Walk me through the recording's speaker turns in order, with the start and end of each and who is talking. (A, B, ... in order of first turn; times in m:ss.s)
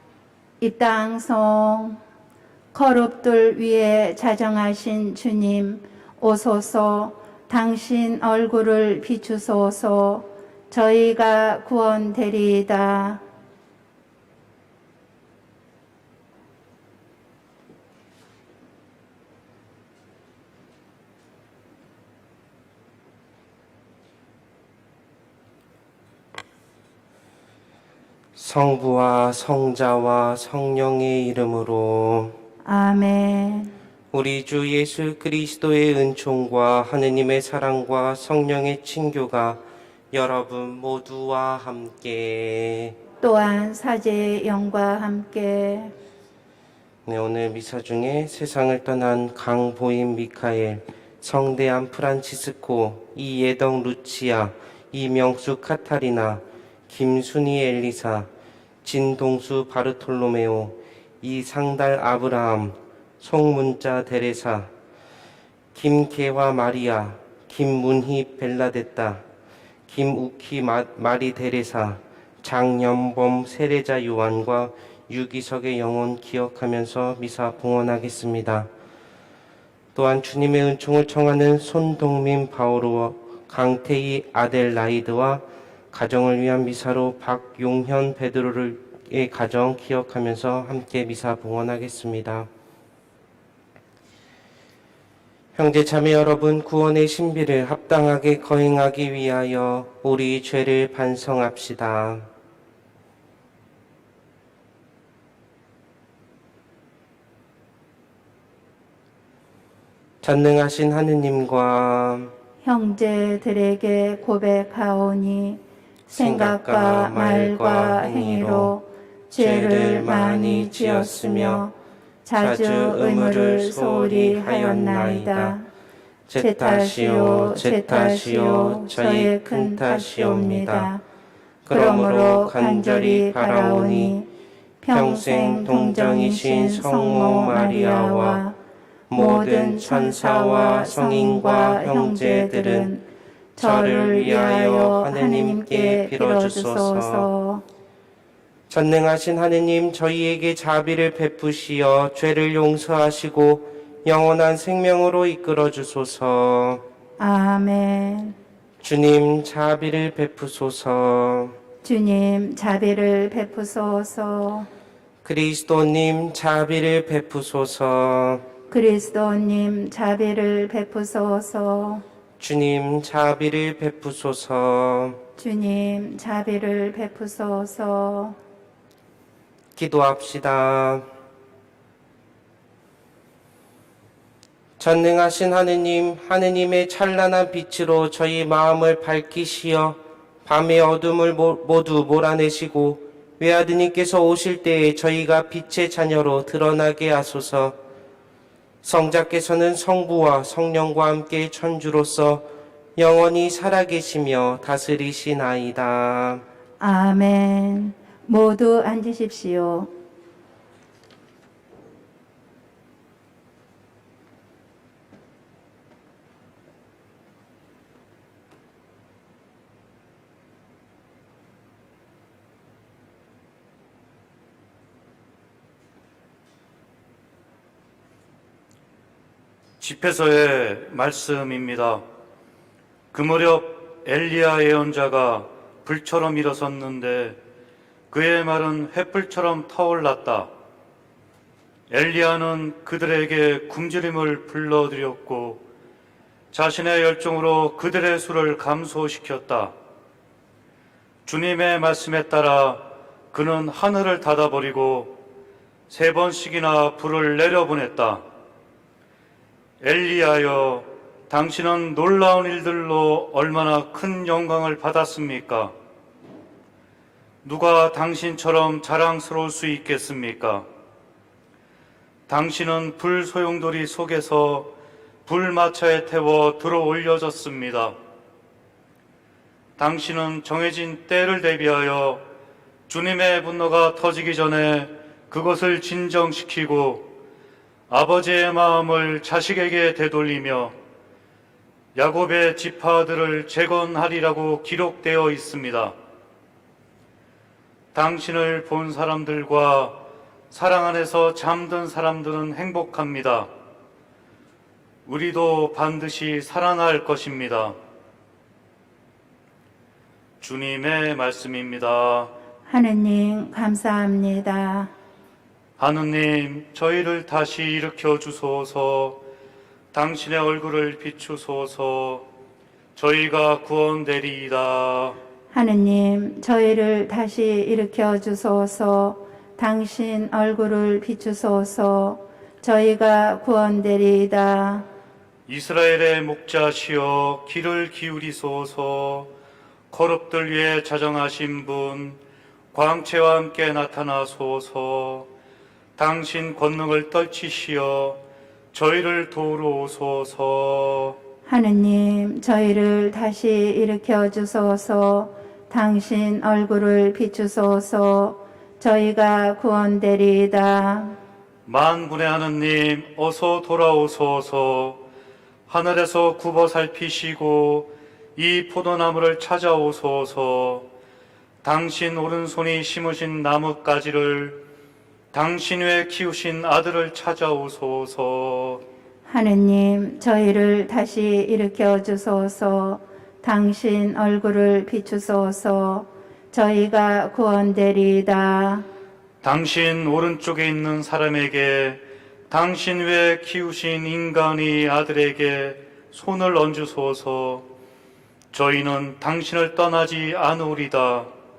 0:00.6-0:02.0 A
0:02.7-0:13.2 A
0:28.4-0:32.4 B
0:32.6-0:33.7 A
0:34.1-0:39.6 B
0:40.1-0:43.0 B
0:43.2-0:45.9 A
0:47.0-0:58.3 B
0:58.8-1:04.7 B
1:05.7-1:09.2 B
1:09.9-1:18.7 B
1:19.9-1:32.5 B
1:35.6-1:42.3 B
1:50.2-1:52.3 B
1:52.6-1:55.6 A
1:56.1-1:58.7 B
1:56.1-2:01.7 A
1:59.4-2:01.6 B
2:02.2-2:05.7 A
2:02.4-2:05.6 B
2:06.3-2:10.9 B
2:06.4-2:11.0 A
2:11.7-2:14.2 B
2:11.7-2:14.3 A
2:14.8-2:18.6 A
2:14.9-2:18.4 B
2:19.1-2:22.9 B
2:19.1-2:23.0 A
2:23.6-2:27.6 A
2:23.6-2:27.2 B
2:28.7-2:36.8 B
2:37.2-2:38.3 A
2:38.8-2:41.6 B
2:41.8-2:44.7 A
2:45.2-2:48.4 B
2:48.7-2:52.0 A
2:52.4-2:55.2 B
2:55.4-2:58.4 A
2:59.8-3:01.1 B
3:04.8-3:17.8 B
3:18.8-3:26.4 B
3:26.8-3:29.9 A
3:49.8-3:52.0 C
3:53.1-3:57.4 C
3:58.1-4:00.5 C
4:01.9-4:05.6 C
4:06.5-4:09.8 C
4:11.2-4:15.2 C
4:15.9-4:18.2 C
4:19.8-4:25.8 C
4:27.4-4:30.6 C
4:32.3-4:34.7 C
4:35.2-4:37.9 C
4:39.8-4:42.2 C
4:42.9-4:47.1 C
4:47.9-4:50.8 C
4:51.9-4:55.9 C
4:57.9-5:03.5 C
5:05.0-5:07.8 C
5:10.4-5:12.3 C
5:12.7-5:14.9 A
5:15.8-5:19.2 C
5:19.9-5:22.2 C
5:22.9-5:25.2 C
5:25.5-5:34.8 A
5:35.5-5:39.3 C
5:39.9-5:42.2 C
5:42.7-5:45.3 C
5:46.0-5:48.2 C
5:48.7-5:51.2 C
5:51.4-6:01.2 A
6:01.6-6:05.0 C
6:05.7-6:10.9 C
6:11.6-6:14.6 C
6:15.3-6:18.8 C
6:19.3-6:28.9 A
6:29.4-6:37.6 C
6:38.5-6:41.3 C